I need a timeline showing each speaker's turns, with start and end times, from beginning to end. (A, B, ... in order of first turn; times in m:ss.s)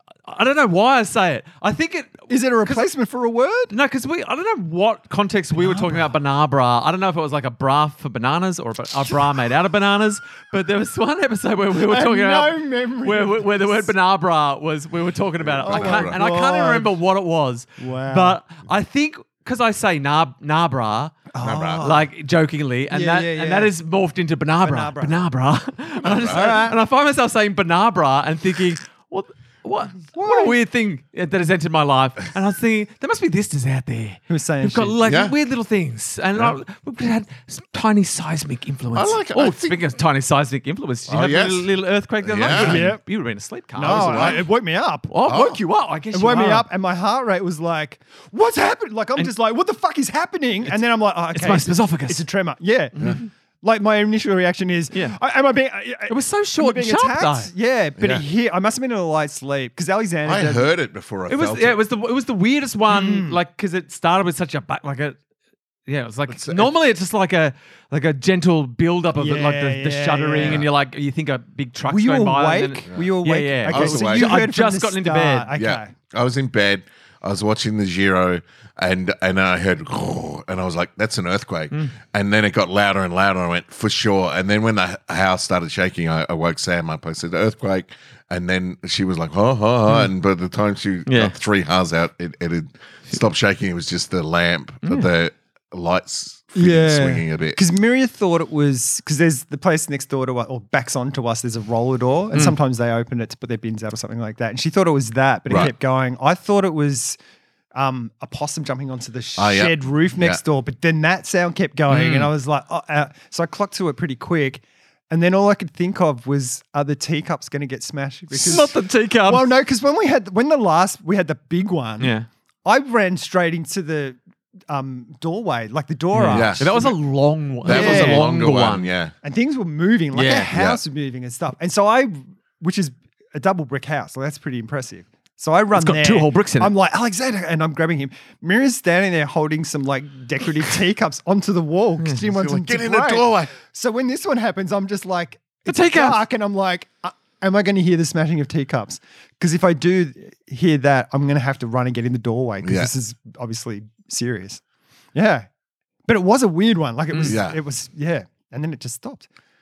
0:00.3-0:02.9 A
0:02.3-0:03.7 B
0:03.7-0:44.4 A
0:05.6-0:06.1 B
0:11.8-0:13.9 B
0:15.4-0:16.2 C
0:15.6-0:16.9 B
0:17.8-0:18.4 B
0:21.3-0:22.1 B
0:21.4-0:21.9 C
0:22.9-0:23.7 B
0:24.6-0:25.2 B
0:26.0-0:26.7 C
0:26.1-0:26.8 B
0:30.1-0:30.6 B
0:34.3-0:35.0 B
0:35.0-0:35.4 C
0:38.9-0:39.8 C
0:41.1-0:41.7 C
0:42.2-0:42.9 C
0:42.5-0:43.0 B
0:43.8-0:45.1 B
0:43.8-0:44.5 C
0:45.1-0:46.7 A
0:45.3-0:45.6 C
0:46.1-1:00.7 B
0:51.3-0:52.2 A
0:53.0-0:53.3 A
0:56.1-0:57.5 A
0:58.0-0:58.2 C
1:00.3-1:01.8 C
1:01.3-1:05.2 A
1:02.9-1:03.4 B
1:05.9-1:15.5 A
1:06.3-1:06.7 C
1:09.2-1:10.7 B
1:10.4-1:10.7 C
1:11.9-1:15.9 B
1:13.7-1:14.3 C
1:15.6-1:37.6 C
1:31.1-1:31.4 A
1:36.6-1:47.2 B
1:47.8-2:02.1 B
1:49.4-1:50.4 C
1:51.9-1:52.3 A
1:58.3-1:59.5 A
2:02.0-2:02.3 A
2:02.6-2:06.9 B
2:06.1-2:08.9 A
2:06.3-2:06.9 C
2:07.6-2:09.1 C
2:07.6-2:08.3 B
2:09.2-2:34.6 B
2:10.1-2:10.5 A
2:10.5-2:10.8 C
2:15.7-2:16.7 A
2:22.2-2:23.5 C
2:25.7-2:26.2 A
2:32.6-2:32.9 C
2:35.1-2:35.5 B
2:36.1-2:39.3 B
2:37.1-2:37.4 A
2:37.2-2:37.6 C